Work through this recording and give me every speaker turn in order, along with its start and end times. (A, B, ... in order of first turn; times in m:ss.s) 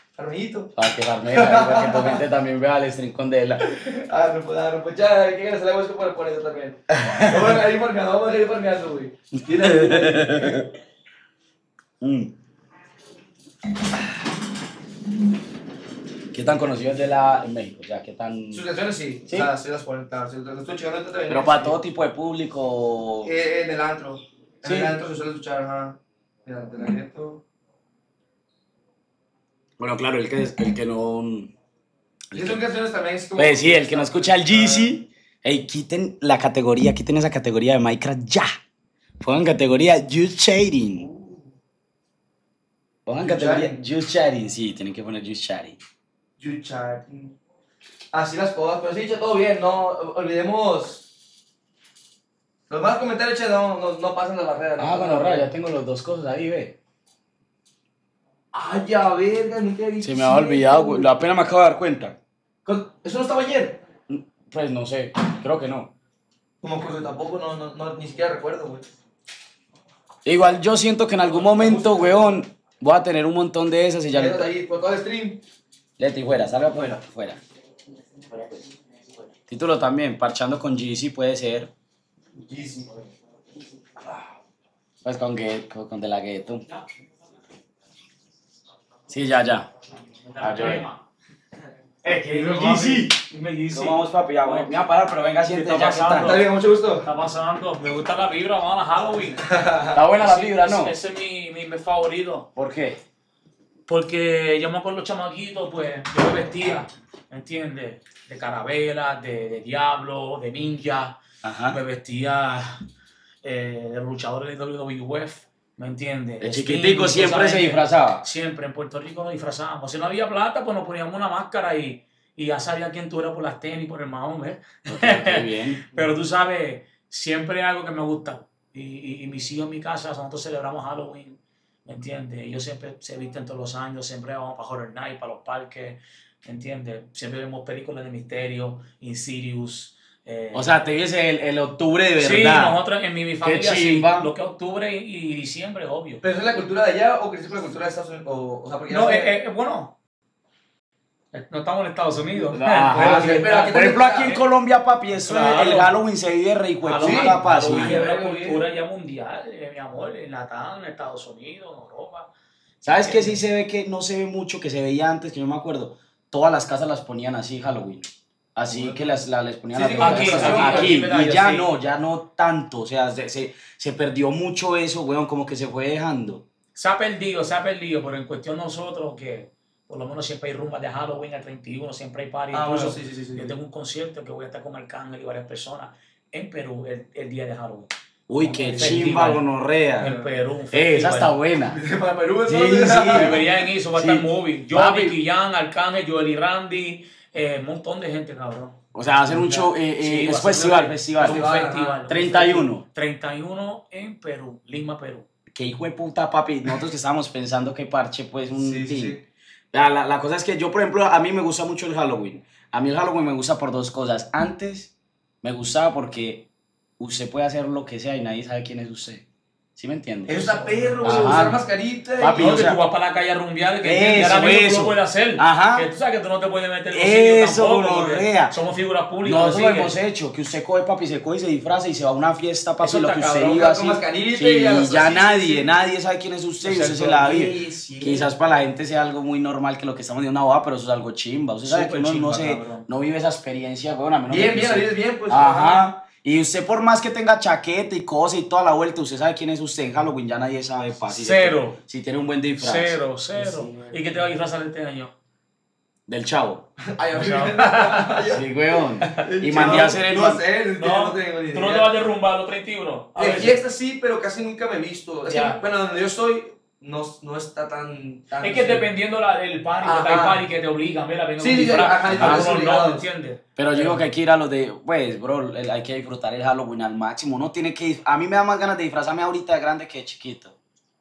0:00.2-0:00.8 A
0:00.8-0:03.6 B
0:01.3-0:02.2 A
0:03.6-0:10.6 A
0:06.9-0:07.6 B
0:09.5-0:10.7 B
0:12.0-0:12.3 B
0:16.3-0:18.6 B
0:18.5-0:21.8 A
0:21.3-0:23.3 B
0:23.2-0:27.4 A
0:24.6-0:25.0 B
0:29.8-0:31.5 B
0:32.3-0:32.6 B
0:32.4-0:35.0 A
0:33.4-0:38.5 B
0:39.2-0:41.1 B
0:41.0-0:41.5 A
0:43.1-0:45.8 B
0:43.2-0:43.8 A
0:46.4-0:47.4 A
0:48.1-0:51.1 A
0:52.7-0:55.5 A
0:54.8-0:56.8 B
0:58.5-1:01.2 A
1:00.0-1:02.2 B
1:02.6-1:03.8 A
1:04.1-1:05.9 B
1:06.6-1:08.9 A
1:10.2-1:14.5 B
1:11.4-1:12.2 A
1:14.1-1:15.4 A
1:16.0-1:17.4 B
1:19.5-1:21.7 B
1:22.4-1:22.9 A
1:25.0-1:26.6 B
1:29.1-1:29.7 B
1:30.2-1:31.0 C
1:30.4-1:30.9 B
1:32.0-1:33.2 B
1:32.1-1:34.7 C
1:33.7-1:36.4 B
1:35.5-1:39.4 C
1:36.2-1:37.1 A
1:39.4-1:40.0 A
1:39.9-1:41.0 B
1:40.1-1:42.5 C
1:42.6-1:43.0 B
1:43.9-1:51.2 C
1:51.4-1:51.8 B
1:51.7-1:52.8 C
1:53.4-2:20.8 C
1:56.4-1:58.2 B
2:04.9-2:05.8 B
2:20.5-2:22.8 B
2:22.2-2:26.2 C
2:23.4-2:24.3 B
2:26.2-2:29.3 A
2:28.9-2:30.0 C
2:31.3-2:34.4 C
2:32.4-2:38.0 B
2:33.0-2:34.4 A
2:35.2-2:36.0 C
2:36.8-2:42.3 C
2:37.0-2:38.6 A
2:42.8-2:56.4 B
2:42.9-2:43.4 C
2:48.7-2:49.1 A
2:49.7-2:51.1 A
2:50.0-2:51.7 C
2:56.8-3:07.9 C
3:02.5-3:03.6 A
3:08.3-3:10.1 B
3:08.5-3:09.4 C
3:08.5-3:09.0 A
3:10.0-3:11.4 C
3:10.0-3:10.3 A
3:10.7-3:11.8 B
3:11.7-3:13.5 A
3:12.5-3:15.2 B
3:13.1-3:18.8 C
3:18.9-3:21.4 B
3:19.4-3:19.6 A
3:19.5-3:25.3 C
3:21.2-3:22.0 A
3:22.1-3:22.8 B
3:25.5-3:29.2 B
3:28.5-3:29.2 A
3:29.7-3:36.5 B
3:37.0-3:39.2 B
3:39.8-3:40.4 B
3:40.3-3:41.6 C
3:40.3-3:42.7 A
3:41.0-3:41.6 B
3:42.2-3:42.8 B
3:42.3-3:50.0 C
3:43.8-3:45.9 B
3:46.9-3:48.5 B
3:49.2-4:13.7 B
3:52.8-3:53.6 C
3:53.5-3:55.8 A
3:56.7-3:58.3 A
4:01.6-4:02.9 C
4:04.3-4:05.9 A
4:11.0-4:11.8 C
4:12.6-4:15.1 C
4:16.1-4:16.6 B
4:16.9-4:18.5 A
4:17.2-4:18.2 C
4:18.3-4:20.4 B
4:19.0-4:21.9 A
4:19.6-4:20.0 C
4:20.8-4:23.6 C
4:23.2-4:28.9 A
4:25.3-4:25.6 C
4:28.4-4:34.0 C
4:29.8-4:30.4 A
4:31.4-4:33.0 A
4:32.1-4:32.5 B
4:33.6-4:40.6 B